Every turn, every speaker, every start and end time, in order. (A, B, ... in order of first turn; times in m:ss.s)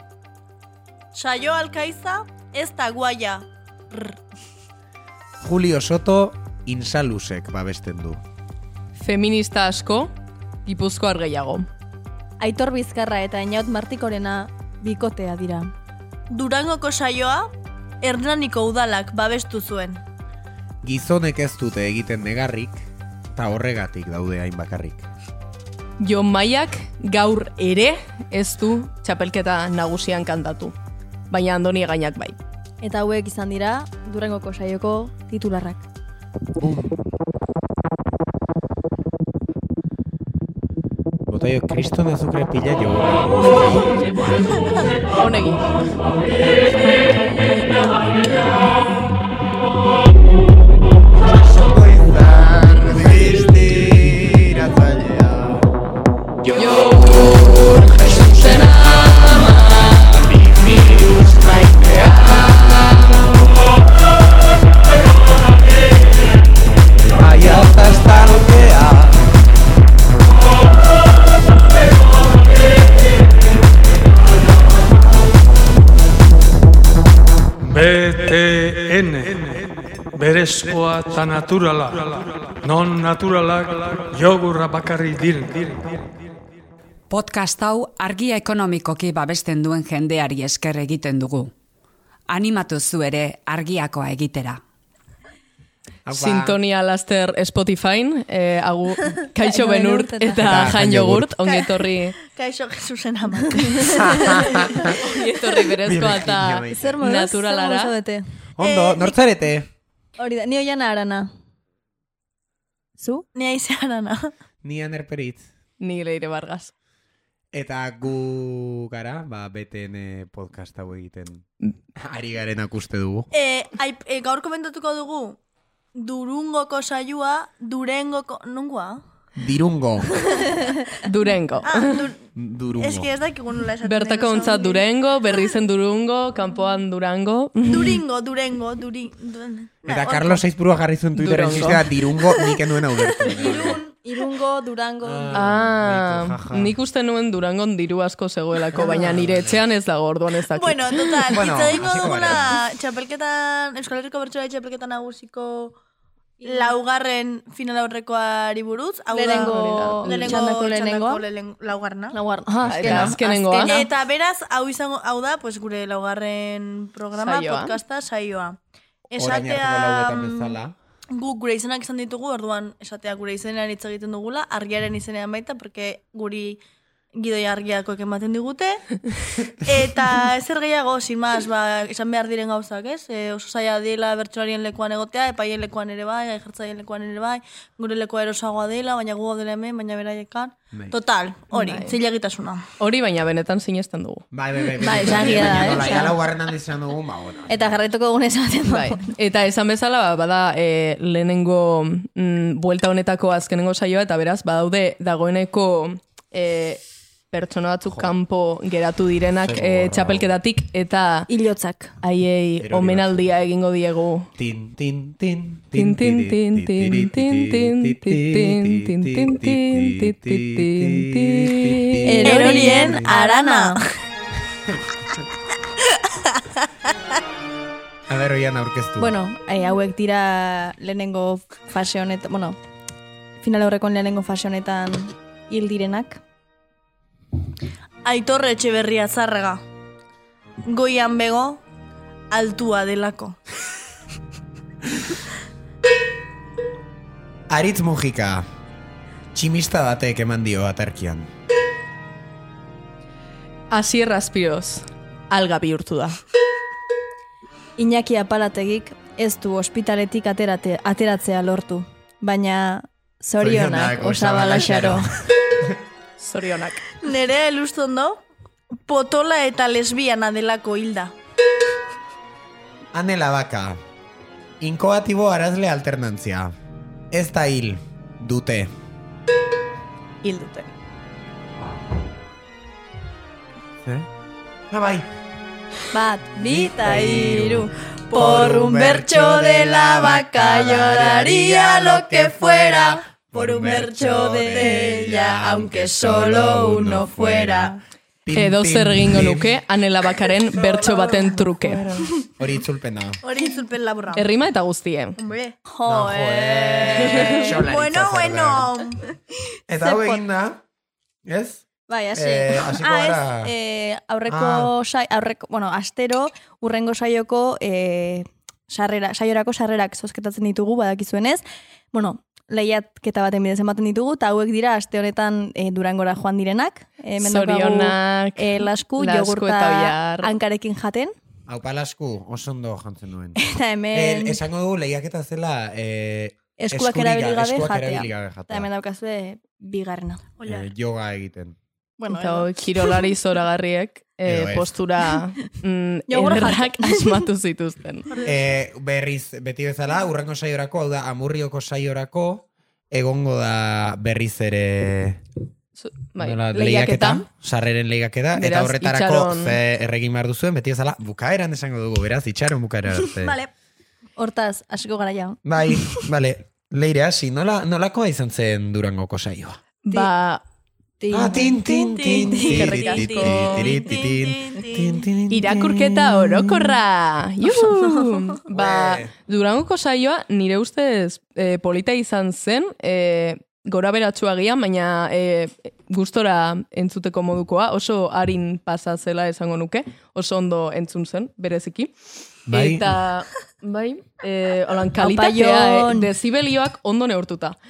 0:01.1-0:03.4 A
0:05.4-0:08.2 B
0:09.0-0:10.1 C
0:10.6-0:11.6 C
0:12.4-0:15.7 D
0:16.3-0:17.5 A
0:18.0-0:20.0 A
0:20.8-0:25.1 B
0:26.0-0:30.7 C
0:31.3-0:32.4 C
0:32.8-0:35.8 D
0:36.6-0:37.0 B
0:41.3-0:44.0 B
0:45.2-0:45.7 C
0:51.3-0:55.6 B
0:56.5-1:00.0 C
0:57.8-0:58.9 B
1:00.1-1:03.1 B
1:07.1-1:09.2 B
1:17.6-1:26.1 E
1:27.1-1:31.5 F
1:32.3-1:34.6 F
1:36.0-1:36.6 B
1:36.1-1:42.1 C
1:39.4-1:40.7 D
1:40.4-1:41.3 B
1:41.4-1:41.7 A
1:42.2-1:44.0 A
1:43.5-1:45.4 D
1:44.1-1:44.9 B
1:45.0-1:47.9 C
1:45.8-1:47.0 B
1:46.7-1:48.2 D
1:48.6-1:49.7 B
1:48.6-1:49.2 A
1:50.2-1:51.3 D
1:53.0-1:53.2 D
1:53.3-1:54.3 A
1:54.6-1:55.5 B
1:55.8-1:56.7 C
1:57.5-2:01.4 B
2:02.0-2:03.3 B
2:03.3-2:05.4 A
2:06.0-2:09.0 A
2:09.4-2:10.2 B
2:11.0-2:12.1 C
2:11.6-2:12.2 A
2:12.4-2:13.1 B
2:12.7-2:14.8 A
2:13.8-2:18.0 C
2:17.6-2:20.4 A
2:19.8-2:23.8 B
2:21.2-2:21.9 C
2:23.2-2:23.9 A
2:23.4-2:25.5 D
2:25.0-2:26.7 B
2:25.3-2:31.3 C
2:28.7-2:29.6 B
2:30.5-2:35.8 A
2:31.3-2:32.6 B
2:36.4-2:42.2 A
2:39.1-2:41.2 D
2:39.3-2:40.3 C
2:42.1-2:43.9 D
2:42.5-2:43.7 C
2:42.6-2:43.1 B
2:43.6-2:48.6 A
2:47.2-2:47.8 C
2:49.1-2:50.6 A
2:49.2-2:50.7 B
2:51.1-2:56.6 A
2:57.2-2:58.8 A
2:59.6-3:12.6 A
3:11.5-3:11.9 C
3:12.8-3:14.2 C
3:14.3-3:17.8 B
3:14.8-3:16.2 D
3:15.0-3:15.7 C
3:17.5-3:19.0 D
3:18.7-3:31.3 C
3:29.4-3:30.3 B
3:31.3-3:31.9 D
3:32.0-3:34.3 C
3:32.6-3:33.3 B
3:34.4-3:43.1 B
3:35.7-3:42.8 C
3:42.0-3:43.8 D
3:42.2-3:43.8 A
3:48.1-3:49.1 B
3:49.0-3:52.6 D
3:53.4-3:56.2 D
3:58.0-3:59.6 A
4:00.7-4:01.6 A
4:02.3-4:03.4 A
4:07.5-4:08.5 B
4:09.3-4:11.3 B
4:13.7-4:16.2 C
4:17.8-4:25.1 D
4:23.4-4:25.1 B
4:26.2-4:26.8 C
4:27.0-4:28.2 A
4:28.8-4:31.1 A
4:32.9-4:33.8 B
4:34.6-4:36.5 B
4:37.1-4:38.7 B
4:40.2-4:40.6 D
4:44.7-4:45.1 B
4:45.9-4:52.3 D
4:46.4-4:57.7 B
4:51.4-4:55.3 A
4:54.1-4:57.8 D
4:58.2-4:59.6 B
4:58.3-5:01.8 C
5:00.8-5:01.2 A
5:01.6-5:03.2 B
5:03.2-5:04.2 A
5:04.1-5:05.2 C
5:05.2-5:09.0 A
5:05.8-5:08.7 B
5:09.7-5:10.6 B
5:09.8-5:10.2 D
5:11.2-5:13.5 B
5:11.9-5:31.1 D
5:14.3-5:14.7 B
5:27.2-5:30.3 C
5:31.5-5:33.4 B
5:33.4-5:34.4 D
5:33.9-5:38.7 B
5:36.6-5:40.3 D
5:40.4-5:40.7 A
5:40.4-5:41.6 B
5:42.0-5:42.4 A
5:42.1-5:48.1 C
5:44.2-5:44.7 B
5:46.1-5:47.2 D
5:48.1-5:48.4 A
5:48.2-5:55.2 B
5:55.8-5:57.2 C
5:56.2-6:03.4 B
5:58.4-5:59.6 C
6:03.2-6:03.5 A
6:04.2-6:05.4 D
6:05.4-6:09.6 B
6:09.8-6:10.4 C
6:11.0-6:13.6 D
6:11.1-6:16.8 B
6:11.4-6:15.0 A
6:12.4-6:13.7 C
6:15.3-6:31.9 C
6:18.5-6:19.1 B
6:32.5-6:32.9 B
6:32.5-6:37.6 C
6:35.0-6:36.1 D